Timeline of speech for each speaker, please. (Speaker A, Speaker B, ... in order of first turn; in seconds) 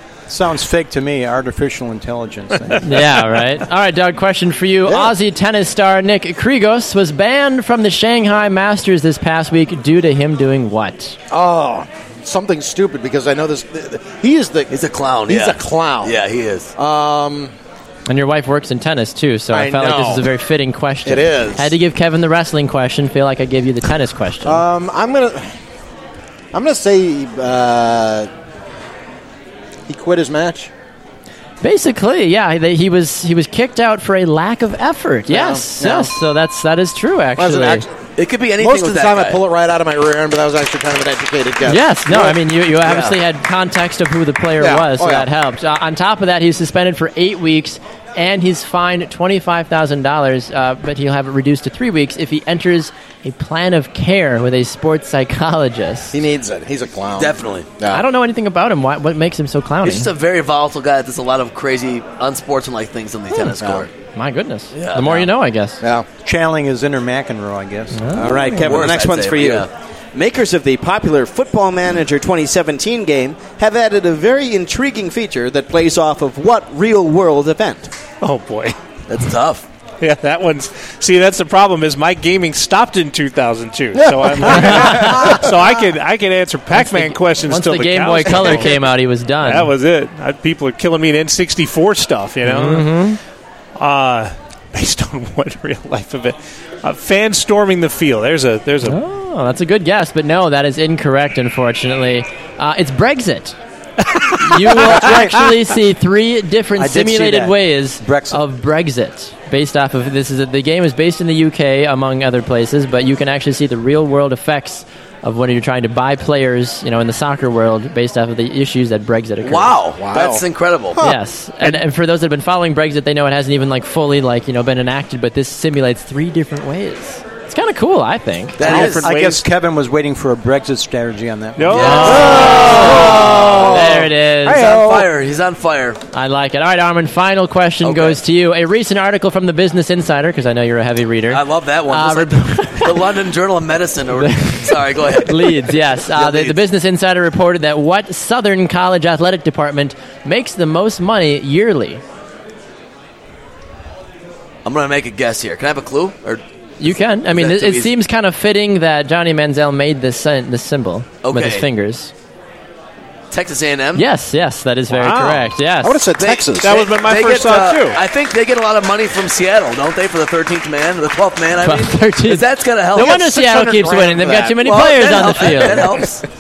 Speaker A: 0.3-3.1, 66.2-68.0, 104.8-105.5, 106.8-108.4, 128.7-132.0
Speaker B: 2.8-11.2, 18.1-24.6, 31.6-37.9, 41.6-56.2, 57.9-60.1, 64.2-65.8, 68.0-68.7, 84.5-85.4, 86.7-89.7, 92.5-93.2, 98.8-103.6, 104.4-119.7, 121.0-128.6, 131.7-134.7, 136.1-143.0, 144.2-152.0, 156.8-162.1, 163.9-166.0, 171.6-176.1
Speaker C: 4.9-5.1, 11.3-14.7, 15.2-16.2, 16.8-17.5, 19.5-20.3, 21.1-21.7, 24.4-25.5, 26.5-28.3, 29.9-30.7, 35.3-36.1, 37.4-37.9, 38.6-42.4, 44.6-45.3, 56.1-58.0, 63.6-63.9, 65.8-66.1, 84.0-85.5, 120.0-120.4, 132.3-134.0, 165.8-166.9, 173.0-175.1
Speaker D: 14.7-16.7, 38.2-39.4, 42.9-43.2, 57.2-57.7, 59.8-63.9, 64.7-65.3, 68.5-69.7, 79.1-79.7, 119.4-121.0, 128.6-129.1, 131.7-136.0, 137.8-138.2, 141.3-146.6, 154.7-156.4, 157.3-157.9, 161.2-161.7, 163.3-164.1, 166.2-173.4, 174.6-176.2
Speaker E: 68.2-77.9
Speaker F: 78.2-78.8, 80.0-88.8, 89.4-93.0, 93.8-99.0, 104.2-104.6, 128.6-129.4, 131.6-132.4, 134.5-134.9, 164.9-165.5, 166.6-168.0